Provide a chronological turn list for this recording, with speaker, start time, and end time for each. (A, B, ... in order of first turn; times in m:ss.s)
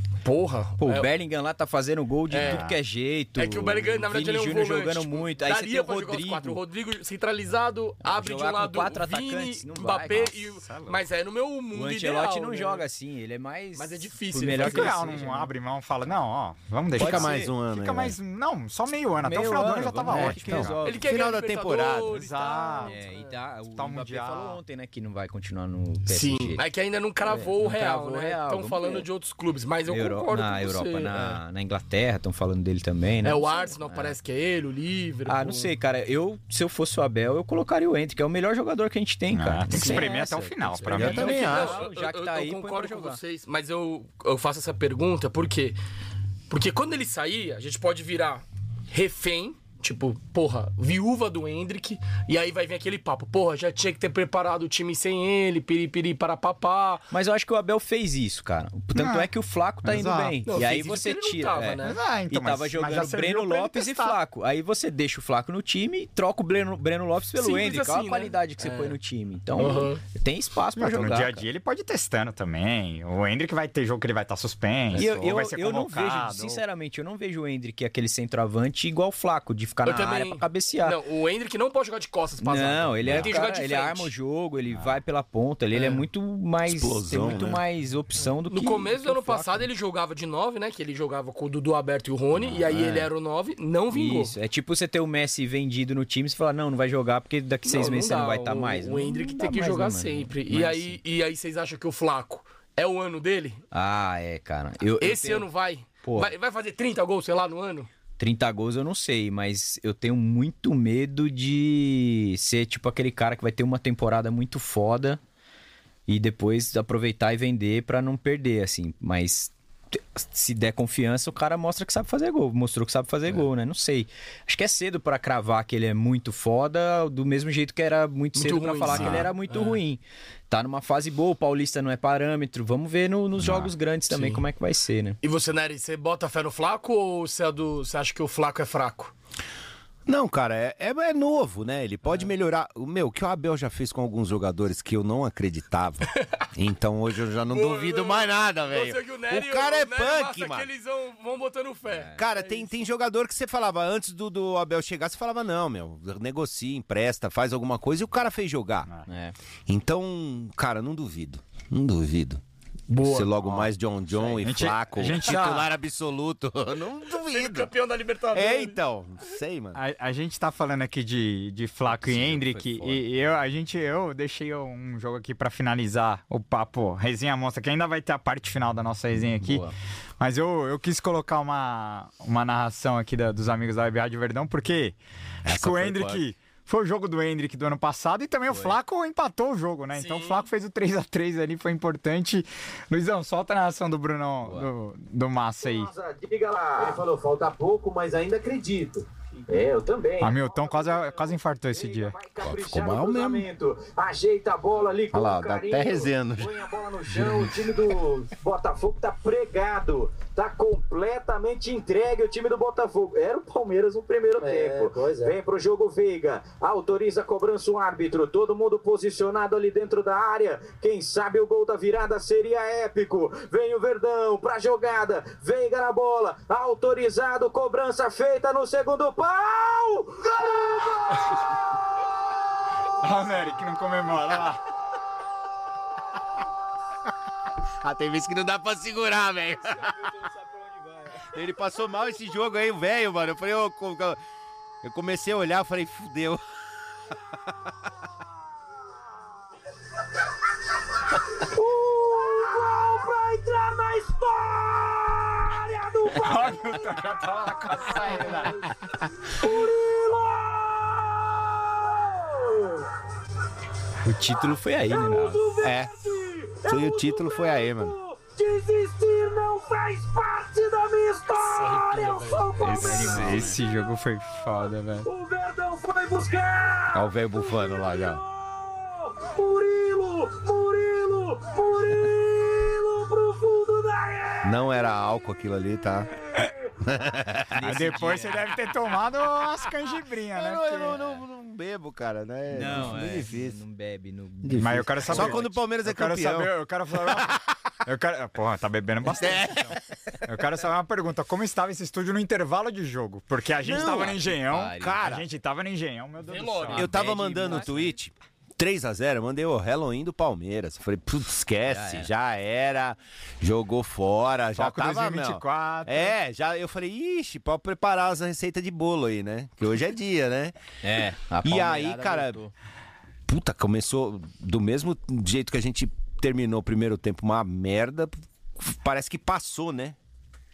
0:00.2-0:01.1 A
0:00.8-0:06.6 B
0:02.3-0:02.7 A
0:02.4-0:02.8 C
0:03.4-0:12.8 A
0:08.0-0:10.3 B
0:10.0-0:11.0 C
0:11.7-0:15.5 B
0:13.8-0:15.2 A
0:14.5-0:20.7 C
0:17.0-0:18.1 D
0:17.0-0:17.5 B
0:19.2-0:21.0 B
0:20.1-0:22.2 D
0:20.8-0:23.3 A
0:22.1-0:22.9 C
0:22.8-0:26.6 B
0:23.8-0:24.6 C
0:26.1-0:31.4 A
0:27.2-0:29.1 B
0:29.9-0:34.2 B
0:33.2-0:35.7 A
0:35.3-0:43.2 B
0:39.3-0:41.5 C
0:39.7-0:40.2 A
0:40.8-0:45.8 A
0:40.9-0:41.8 D
0:46.5-0:57.0 A
0:57.1-1:11.4 B
0:58.9-0:59.3 C
0:59.8-1:00.4 C
1:00.4-1:02.0 A
1:01.8-1:04.2 C
1:07.4-1:09.0 A
1:09.6-1:10.0 A
1:10.8-1:16.6 C
1:14.9-1:21.0 B
1:19.8-1:24.1 A
1:22.4-1:29.7 B
1:24.7-1:25.0 C
1:25.7-1:26.0 A
1:26.6-1:27.6 D
1:28.2-1:34.3 A
1:32.6-1:33.1 B
1:33.9-1:41.0 B
1:37.6-1:43.6 A
1:43.7-1:45.5 B
1:45.0-1:47.9 A
1:46.0-1:46.3 B
1:48.2-1:55.2 B
1:56.1-2:15.2 B
2:08.4-2:09.8 A
2:08.9-2:09.2 C
2:08.9-2:09.2 D
2:13.4-2:13.7 C
2:14.1-2:14.4 A
2:15.2-2:19.1 A
2:20.1-2:30.7 D
2:27.5-2:32.8 A
2:31.9-2:32.2 B
2:32.1-2:38.9 D
2:39.1-2:39.3 B
2:39.7-2:42.4 D
2:42.9-2:43.4 A
2:43.0-2:47.7 D
2:43.4-2:45.4 B
2:44.4-2:45.7 C
2:47.2-2:48.8 A
2:48.3-2:49.8 D
2:49.7-2:59.6 C
2:51.9-2:53.0 B
2:59.4-2:59.7 B
3:00.2-3:15.9 C
3:05.4-3:06.2 D
3:08.5-3:08.8 B
3:09.9-3:10.5 A
3:14.4-3:14.7 B
3:15.6-3:52.0 E
3:20.2-3:22.2 C
3:22.4-3:23.5 D
3:25.1-3:27.5 D
3:53.0-3:54.6 C
3:57.8-4:00.0 D
4:01.2-4:04.2 D
4:04.8-4:06.4 D
4:11.2-4:22.9 E
4:16.1-4:18.7 C
4:24.0-4:25.6 B
4:24.2-4:33.9 E
4:25.6-4:26.1 D
4:26.6-4:27.9 D
4:31.4-4:32.8 A
4:32.6-4:35.1 C
4:32.6-4:33.6 B
4:34.5-4:45.0 E
4:36.9-4:38.2 D
4:44.4-4:46.1 D
4:46.2-4:46.8 E
4:46.8-4:47.6 D
4:47.5-4:48.5 B
4:47.6-4:51.0 C
4:50.3-4:53.6 D
4:50.9-4:51.2 B
4:52.5-4:55.5 B
4:54.4-4:56.5 D
4:54.6-4:59.6 C
4:57.1-4:57.5 D
4:59.1-4:59.7 D
4:59.2-4:59.6 B
5:00.2-5:06.9 C
5:03.6-5:05.2 D
5:04.4-5:05.0 B
5:06.2-5:07.5 A
5:06.7-5:08.0 B
5:06.7-5:20.6 D
5:11.7-5:12.1 B
5:14.5-5:16.2 C
5:20.8-5:22.5 B
5:21.4-5:22.4 D
5:23.3-5:30.0 D